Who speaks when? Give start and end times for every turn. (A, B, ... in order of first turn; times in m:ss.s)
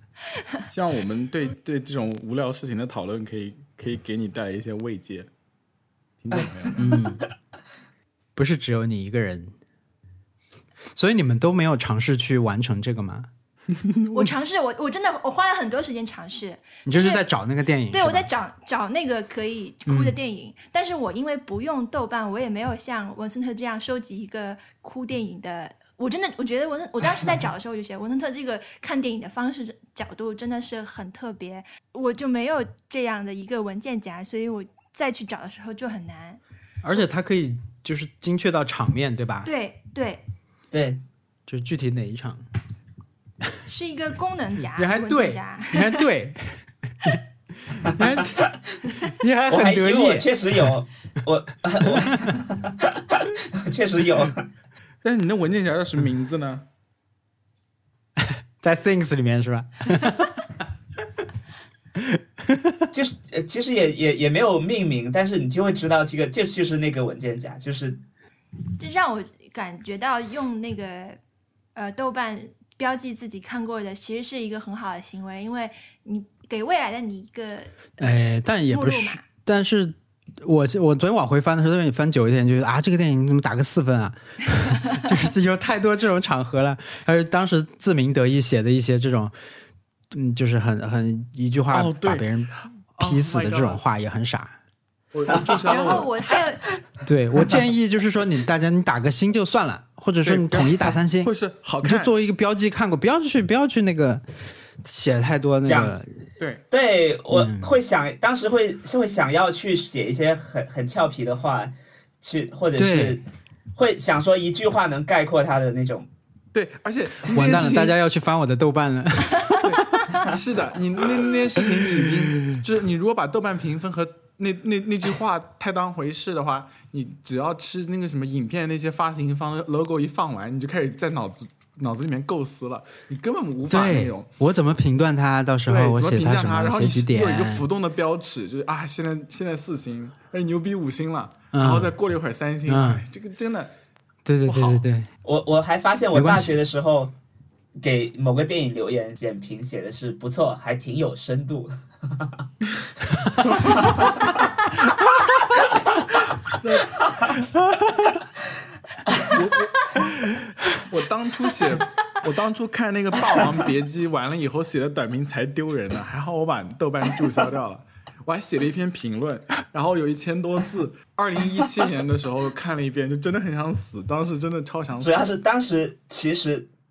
0:00.7-0:05.3 A
0:06.2-0:06.9 A
0:06.8-0:07.2 B
0:08.4-0:09.5 B
0:11.0-0:13.3 B
0:13.7-0:14.3 A
0:14.1-0:17.2 C
0:16.9-0:18.3 B
0:17.9-0:36.4 C
0:19.9-0:20.1 B
0:36.8-0:39.5 B
0:39.4-0:40.2 C
0:40.7-0:41.0 D
0:41.5-0:42.4 B
0:43.7-0:46.0 C
0:44.8-0:48.4 B
0:47.9-0:48.6 D
0:49.0-0:50.4 B
0:49.5-0:54.5 D
0:51.8-0:52.2 B
0:55.0-0:56.6 A
0:58.2-1:00.5 B
1:02.0-1:02.9 B
1:02.9-1:08.0 D
1:08.8-1:11.2 C
1:11.8-1:17.8 C
1:18.0-1:29.3 B
1:18.7-1:19.2 C
1:30.1-1:34.6 B
1:31.7-1:33.8 A
1:35.1-1:36.1 A
1:35.7-1:36.6 C
1:37.0-1:44.2 B
1:40.2-1:42.1 A
1:44.8-1:46.2 B
1:45.6-1:45.9 D
1:46.7-1:53.2 D
1:47.3-1:47.7 B
1:52.8-1:53.2 B
1:53.8-1:56.1 D
1:56.5-1:58.0 A
1:57.3-2:00.1 B
1:59.6-2:14.3 A
2:13.7-2:17.7 B
2:15.7-2:23.7 A
2:21.5-2:21.9 B
2:22.7-2:23.0 B
2:24.2-2:25.1 B
2:24.5-2:24.8 A
2:25.2-2:27.2 D
2:26.1-2:26.6 B
2:27.8-2:32.4 D
2:33.5-2:33.8 A
2:33.6-2:34.0 D
2:36.6-2:37.0 A
2:37.4-2:38.1 B
2:39.2-2:40.2 A
2:40.7-2:55.3 A
2:55.0-2:56.7 D